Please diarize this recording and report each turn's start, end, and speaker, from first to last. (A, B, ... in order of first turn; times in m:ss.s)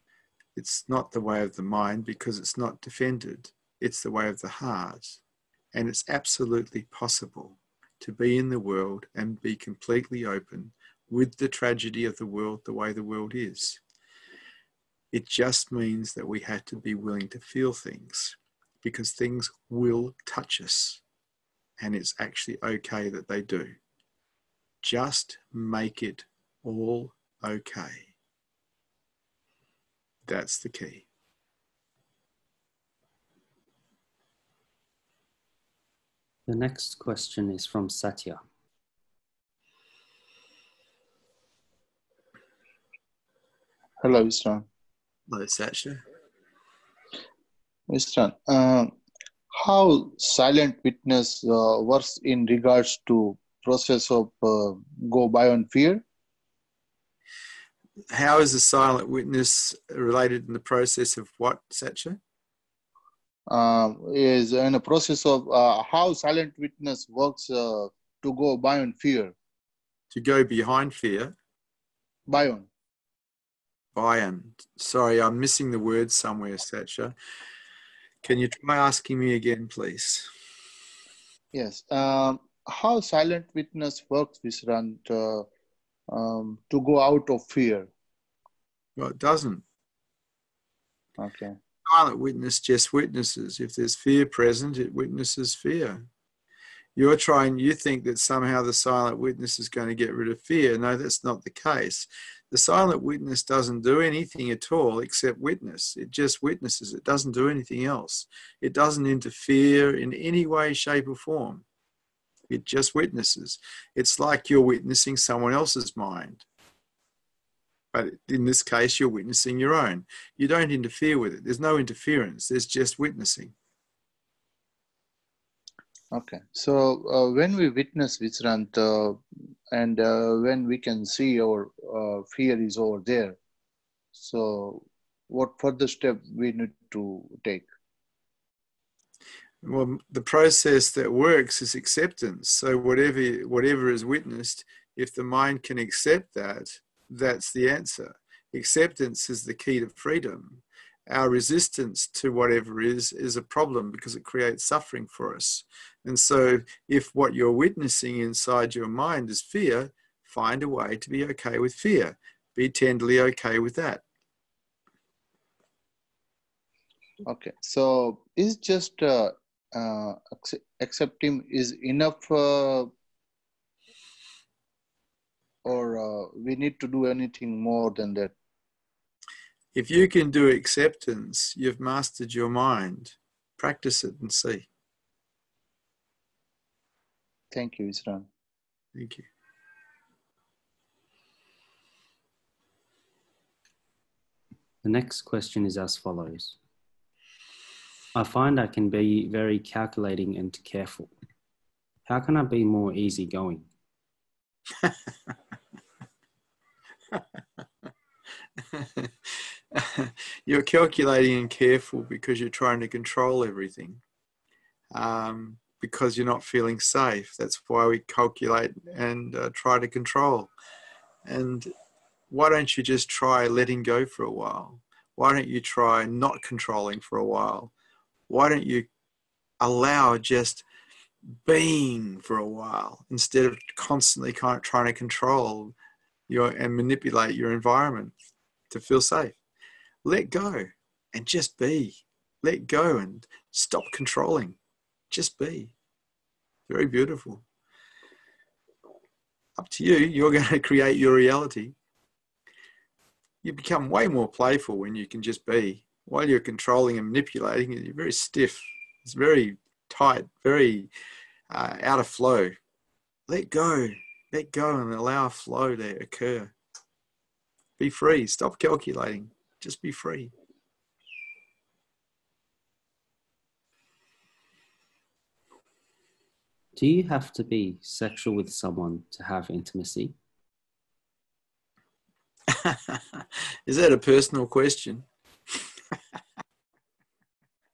0:00.6-0:05.2 A
0:05.7-0:13.8 A
0:15.1-0:21.0 A
0:21.8-0:23.8 A
0:24.8-0:28.1 A
0:30.3-0:31.0 A
0:36.5-0:38.4 B
0:44.0-0:44.6 C
0:45.3-0:46.0 A
0:47.9-0:49.0 C
0:49.5-0:56.0 C
0:58.1-1:02.2 A
1:03.5-1:09.3 C
1:10.1-1:11.3 A
1:12.3-1:12.7 C
1:13.9-1:17.1 A
1:18.2-1:20.3 A
1:21.5-1:25.5 C
1:26.1-1:27.9 C
1:29.0-1:29.6 A
1:31.2-1:31.6 C
1:31.9-1:36.0 A
1:37.0-1:51.6 A
1:52.5-1:56.4 A
1:57.9-2:03.5 A
2:06.1-2:09.2 C
2:09.7-2:13.4 C
2:14.2-2:17.7 C
2:19.6-2:44.0 A
2:47.2-2:52.9 C
2:55.6-2:58.3 C
2:59.7-3:04.7 A
3:07.5-3:08.3 C
3:08.9-3:09.3 A
3:14.8-3:16.6 B
3:18.1-3:21.1 B
3:22.0-3:23.7 B
3:28.7-3:34.0 A
3:34.9-3:40.5 A
3:41.2-3:41.7 A
3:42.3-3:47.7 A
3:48.3-3:48.9 A
3:49.6-3:50.6 A
3:51.3-3:55.7 A
3:56.3-3:58.1 A
3:58.7-3:59.4 A
4:00.0-4:04.6 A
4:05.1-4:05.7 A
4:06.7-4:07.4 A
4:09.6-4:11.7 A
4:13.4-4:20.9 A
4:21.5-4:22.6 A
4:23.3-4:26.5 A
4:27.8-4:30.3 A
4:36.8-4:40.1 B
4:42.5-4:45.1 A